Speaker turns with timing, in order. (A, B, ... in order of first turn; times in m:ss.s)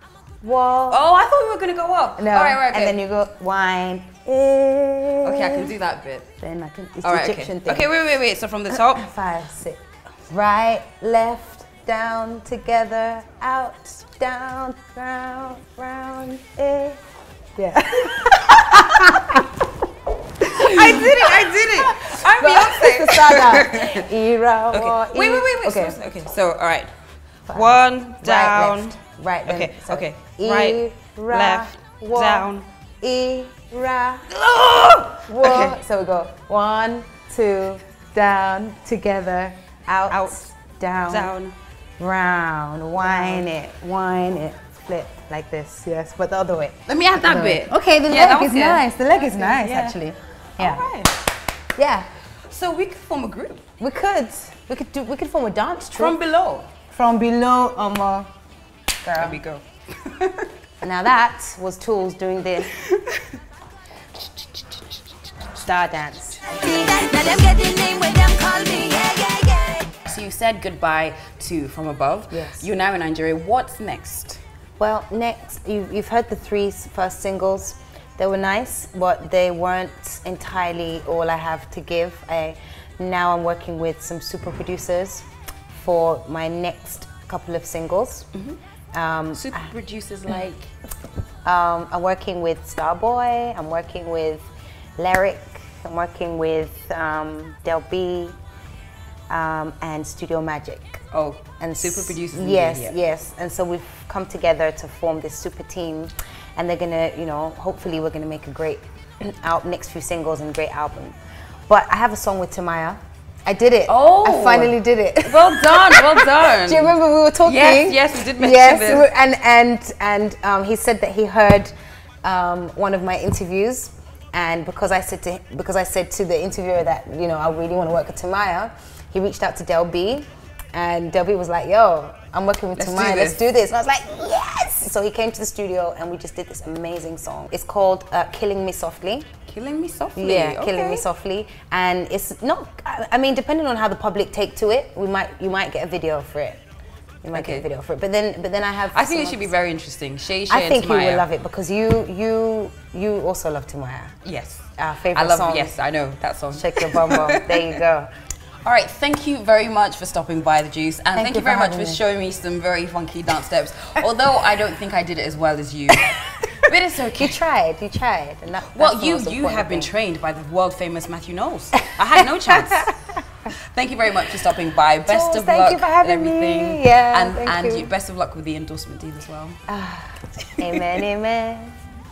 0:00.4-0:01.0 A
0:00.9-0:03.0 B
0:02.2-0:05.7 A
0:05.2-0:06.3 B
0:06.4-0:07.9 A
0:07.0-0:09.1 B
0:08.7-0:17.0 A
0:17.6-0:19.5 A
0:18.1-0:19.1 B
0:20.4-0:26.0 A
0:20.5-0:24.1 B
0:24.7-0:26.9 B
0:27.5-0:32.5 A
0:27.5-0:32.7 B
0:33.0-0:34.3 A
0:34.3-0:35.8 B
0:35.3-0:41.3 A
0:40.1-0:40.5 B
0:41.0-0:41.6 B
0:42.0-0:50.8 A
0:43.0-0:43.5 B
0:46.9-0:50.0 B
0:50.6-0:51.2 B
0:51.8-0:52.1 A
0:52.5-0:53.6 B
0:53.8-0:56.2 A
0:55.9-0:56.7 B
0:56.9-0:58.3 A
0:59.0-0:59.4 A
0:59.2-1:00.5 B
1:00.8-1:02.7 A
1:02.7-1:03.4 B
1:05.6-1:06.5 A
1:06.5-1:10.0 C
1:10.0-1:14.4 B
1:12.3-1:12.7 A
1:14.8-1:28.3 A
1:28.9-1:29.7 A
1:29.3-1:30.7 B
1:31.4-1:38.4 A
1:39.3-1:41.0 A
1:41.1-1:42.9 B
1:41.6-1:51.2 A
1:51.7-2:19.3 A
1:53.9-1:59.1 B
2:12.8-2:13.4 B
2:19.5-2:21.1 B
2:20.2-2:26.6 A
2:27.2-2:29.5 A
2:27.3-2:27.7 B
2:28.9-2:31.3 B
2:30.5-2:34.2 A
2:34.2-2:37.8 B
2:34.8-2:35.8 A
2:36.5-2:38.1 A
2:38.6-2:47.4 B
2:41.2-2:42.0 A
2:46.6-2:49.9 A
2:48.7-2:52.9 B
2:51.9-2:53.2 A
2:53.5-2:59.6 B
2:55.1-2:57.9 A
2:59.7-3:01.8 A